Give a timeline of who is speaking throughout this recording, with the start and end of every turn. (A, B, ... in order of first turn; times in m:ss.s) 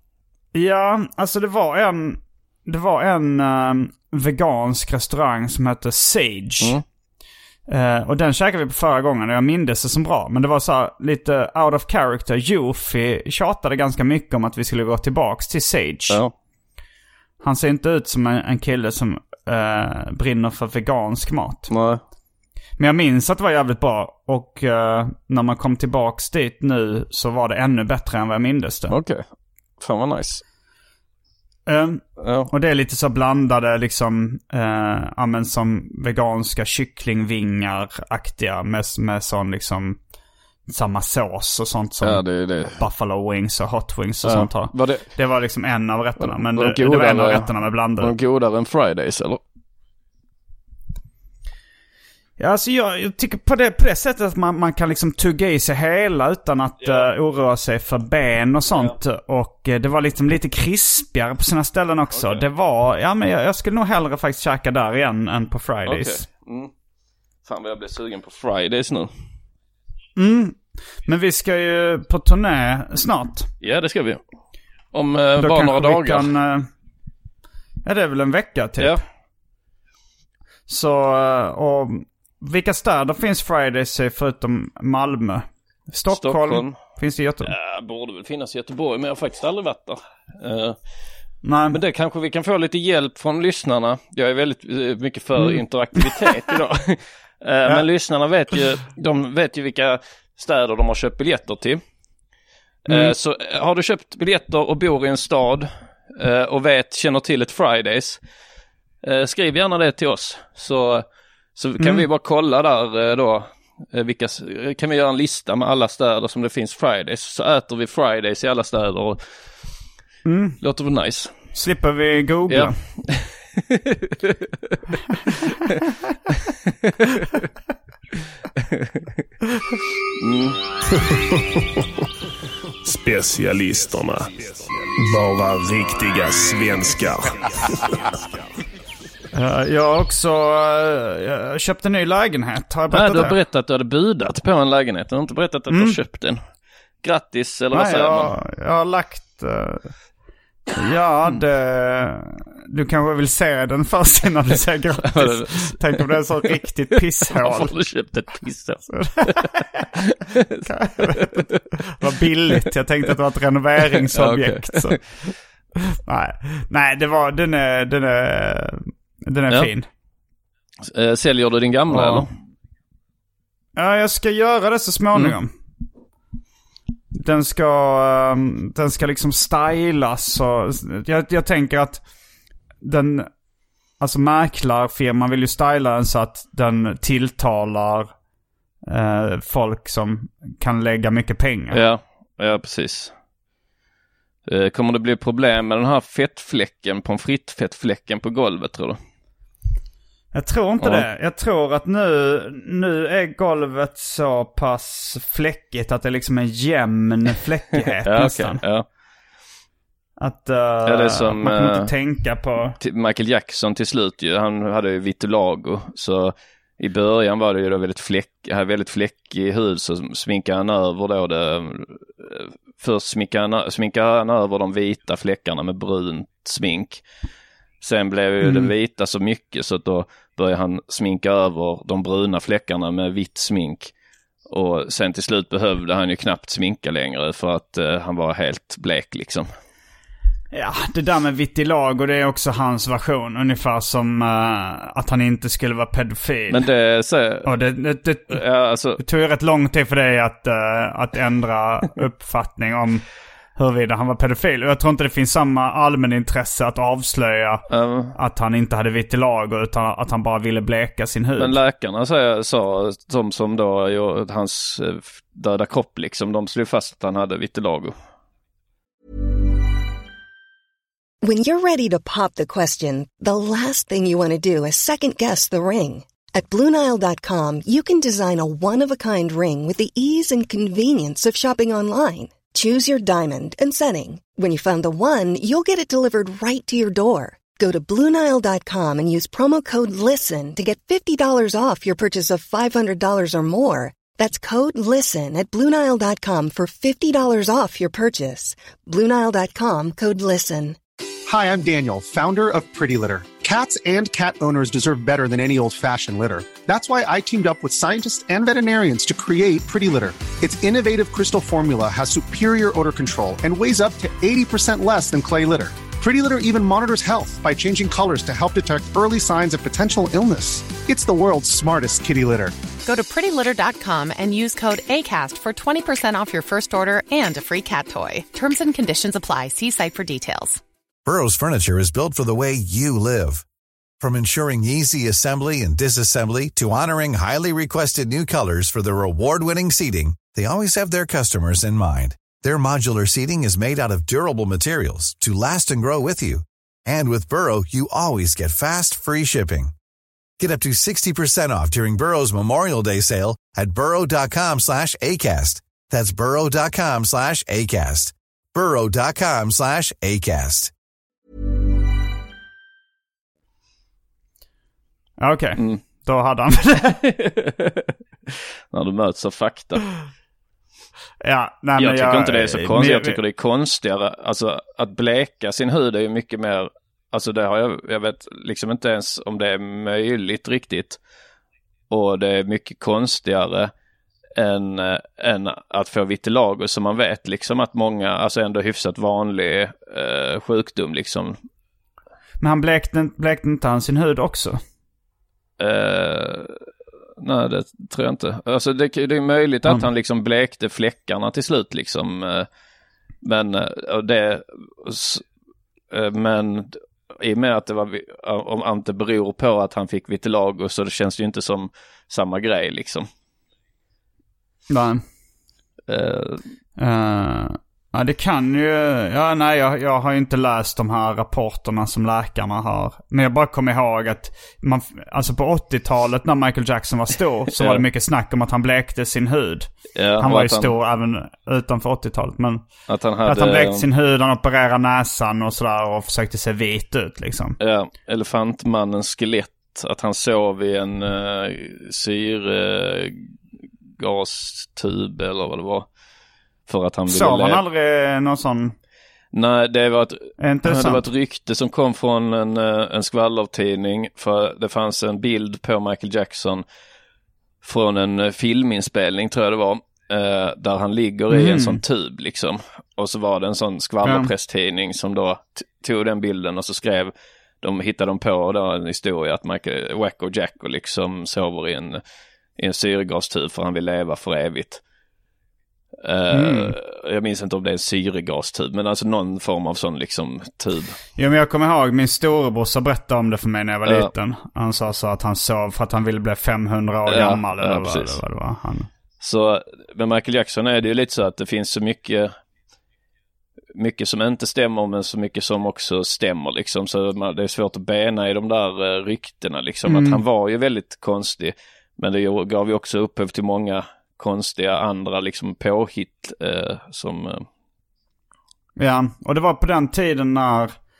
0:00.5-0:06.8 A
0:07.7-0:16.2 A
0:16.1-0:16.3 B
0:17.4-0:21.7 A
0:21.7-0:22.0 B
0:22.8-0:28.9 A
0:28.9-0:29.2 B
0:29.8-0:30.4 B
0:31.7-0:40.0 A
0:32.2-0:32.5 B
0:40.7-0:48.1 A
0:42.0-0:42.8 B
0:44.2-0:45.1 B
0:46.2-0:49.4 B
0:52.4-1:06.2 A
0:56.8-0:57.1 B
1:02.1-1:02.4 B
1:05.8-1:06.7 B
1:07.4-1:09.1 B
1:10.2-1:13.5 A
1:13.6-1:14.2 B
1:14.9-1:16.3 B
1:15.4-1:16.7 A
1:17.8-1:19.0 A
1:20.7-1:27.5 A
1:26.1-1:26.8 B
1:27.4-1:30.8 B
1:31.4-1:31.8 A
1:31.7-1:41.8 B
1:35.4-1:36.1 A
1:42.8-1:48.2 B
1:42.9-1:43.1 A
1:49.0-1:59.2 B
1:51.8-1:52.0 A
2:00.2-2:00.6 A
2:00.6-2:01.3 B
2:01.5-2:02.8 A
2:02.5-2:04.7 B
2:05.4-2:05.7 B
2:06.3-2:07.4 B
2:08.6-2:09.1 B
2:10.2-2:10.6 B
2:12.8-2:17.7 C
2:19.3-2:23.4 A
2:22.9-2:26.4 B
2:25.7-2:26.0 A
2:27.0-2:28.3 B
2:27.7-2:29.9 A
2:30.8-2:37.8 A
2:35.0-2:36.6 B
2:37.3-2:41.6 B
2:38.9-2:39.8 A
2:40.6-2:45.0 A
2:44.0-2:45.3 B
2:45.9-2:49.9 A
2:50.8-2:52.3 B
2:51.9-2:52.3 A
2:53.8-2:55.5 A
2:57.1-3:02.0 A
3:02.8-3:03.3 A
3:04.0-3:08.1 A
3:08.8-3:11.8 A
3:11.7-3:13.1 B
3:14.5-3:19.0 B
3:20.3-3:28.6 A
3:20.8-3:21.0 B
3:27.8-3:28.9 B
3:30.2-3:32.8 A
3:30.8-3:31.9 B
3:32.8-3:47.0 B
3:47.8-3:53.9 B
3:48.4-3:48.7 A
3:54.5-3:59.5 B
4:00.5-4:06.6 A
4:06.5-4:07.5 B
4:07.4-4:08.4 A
4:08.3-4:09.0 B
4:09.0-4:13.0 A
4:13.6-4:21.6 A
4:17.7-4:18.1 B
4:21.4-4:28.0 B
4:31.2-5:00.8 D
5:01.2-5:22.5 E
5:22.8-5:30.6 F
5:31.0-5:33.4 G
5:34.0-5:49.7 G
5:50.4-6:00.7 G
6:05.2-6:07.0 A
6:05.6-6:05.8 B
6:07.0-6:09.8 B
6:11.2-6:13.2 A
6:11.8-6:21.0 B
6:21.9-6:23.7 B
6:24.3-6:31.4 B
6:32.4-6:34.6 A
6:35.6-6:36.6 B
6:37.2-6:42.5 B
6:43.2-6:45.2 B
6:45.9-6:53.1 B
6:54.7-6:55.0 A
6:55.9-6:56.4 B
6:56.8-7:12.6 A
7:07.5-7:07.8 B
7:09.9-7:10.7 B
7:12.9-7:13.8 B
7:13.2-7:17.6 A
7:17.6-7:23.3 B
7:24.0-7:25.9 B
7:26.7-7:27.6 B
7:27.1-7:28.7 A
7:29.3-7:36.6 B
7:30.4-7:31.0 A
7:37.6-7:52.0 B
7:41.3-7:41.8 A
7:44.0-7:44.3 A
7:52.6-7:54.8 B
7:56.0-8:01.0 B
7:56.3-7:56.7 A
8:01.2-8:08.9 A
8:03.8-8:04.1 B
8:07.1-8:08.2 B
8:09.2-8:12.3 B
8:13.7-8:27.5 B
8:19.8-8:20.2 A
8:28.8-8:30.7 A